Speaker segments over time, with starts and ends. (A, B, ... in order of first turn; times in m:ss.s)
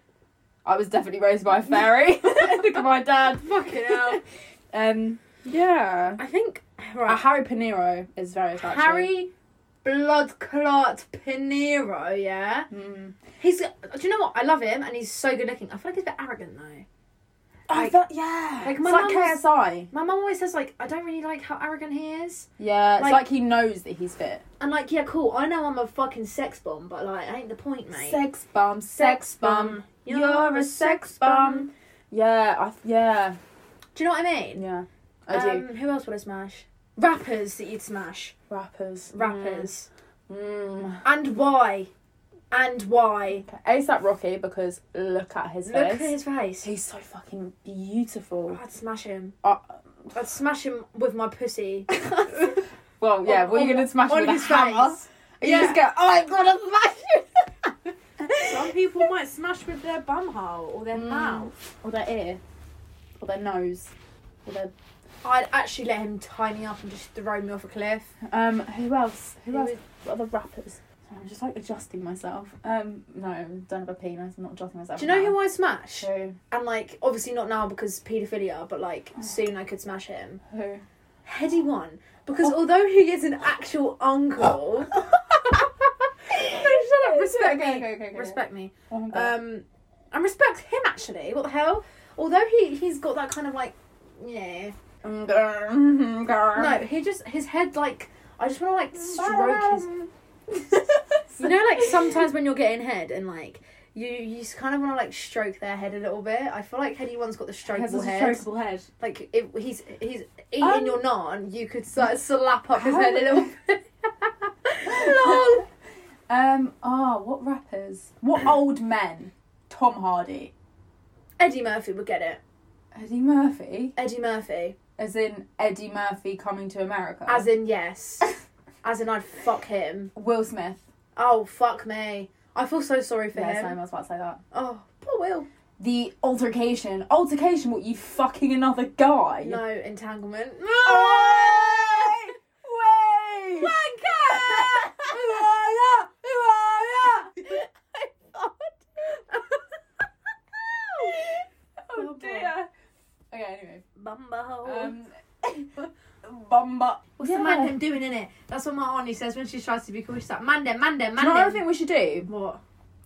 0:00.6-0:06.2 A
0:02.4-0:04.2 B
0:06.2-0:07.2 B
0:07.0-0:09.1 A
0:08.6-0:09.3 B
0:09.8-0:12.7 B
0:12.7-0:13.2 A
0:13.4-0:16.8 B
0:17.7-0:19.9 A
0:17.7-0:18.0 B
0:18.6-0:19.4 B
0:19.9-0:22.5 B
0:22.6-0:24.4 A
0:24.6-0:28.2 B
0:27.9-0:33.4 A
0:29.0-0:31.7 B
0:33.9-0:34.6 B
0:34.6-0:35.6 A
0:35.3-0:38.3 B
0:38.5-0:39.7 A
0:39.1-0:39.9 B
0:40.3-0:41.0 A
0:41.0-0:41.9 B
0:42.5-0:43.5 B
0:43.4-0:48.6 A
0:45.6-0:46.7 B
0:48.5-0:49.4 B
0:49.4-0:50.1 A
0:50.1-0:52.6 B
0:52.0-0:58.7 A
0:53.2-0:55.8 B
0:58.4-1:01.5 B
1:00.9-1:02.4 A
1:03.2-1:03.9 A
1:04.4-1:04.7 A
1:05.2-1:08.1 B
1:08.2-1:15.4 A
1:09.5-1:09.8 B
1:15.0-1:20.4 B
1:16.0-1:16.4 A
1:20.5-1:20.8 A
1:21.2-1:34.7 B
1:26.3-1:29.4 A
1:35.0-1:36.8 A
1:36.5-1:39.9 B
1:38.9-1:42.2 A
1:41.4-1:48.4 B
1:47.7-1:48.9 A
1:49.0-1:55.6 B
1:50.6-1:51.0 A
1:52.7-1:53.5 A
1:54.8-1:55.7 A
1:56.3-2:00.5 A
2:01.4-2:02.4 B
2:02.9-2:04.0 A
2:04.0-2:04.8 B
2:05.0-2:07.5 A
2:07.3-2:10.1 B
2:10.1-2:10.8 A
2:11.2-2:13.8 B
2:13.3-2:14.4 A
2:14.5-2:15.5 B
2:15.8-2:19.6 A
2:19.4-2:22.3 B
2:20.8-2:27.6 A
2:23.6-2:25.8 B
2:27.0-2:29.6 B
2:30.6-2:31.2 B
2:30.9-2:32.7 A
2:31.9-2:32.5 B
2:33.3-2:33.8 A
2:34.0-2:34.9 B
2:34.6-2:37.8 A
2:37.2-2:41.6 B
2:41.2-2:42.3 A
2:42.3-2:42.6 B